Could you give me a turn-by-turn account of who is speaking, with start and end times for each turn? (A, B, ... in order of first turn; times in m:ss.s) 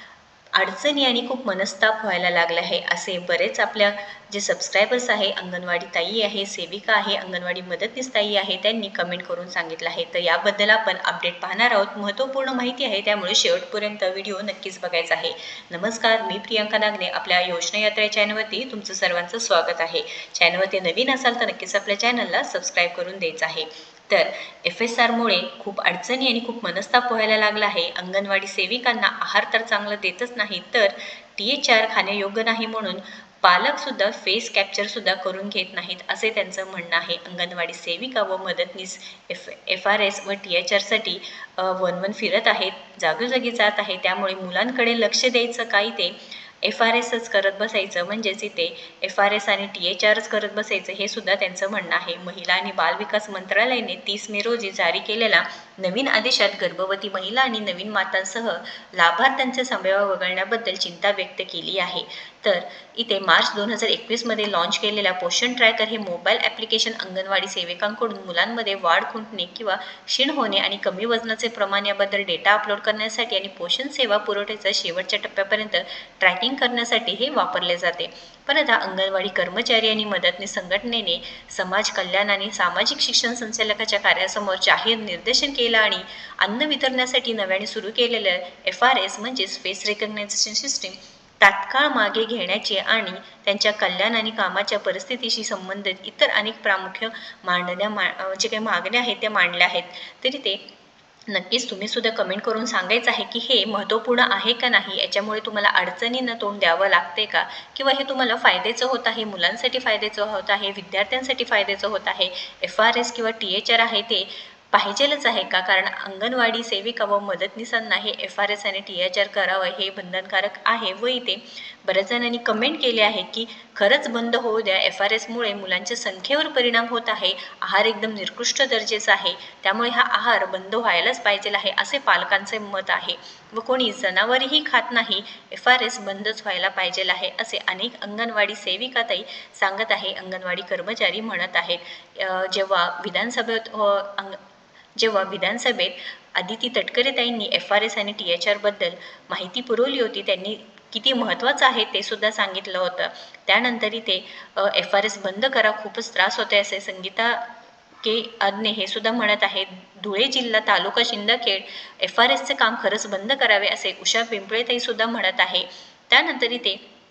0:00.6-1:40.6 A
1:41.3-2:24.4 A
2:25.0-2:37.4 A
2:38.0-2:46.8 A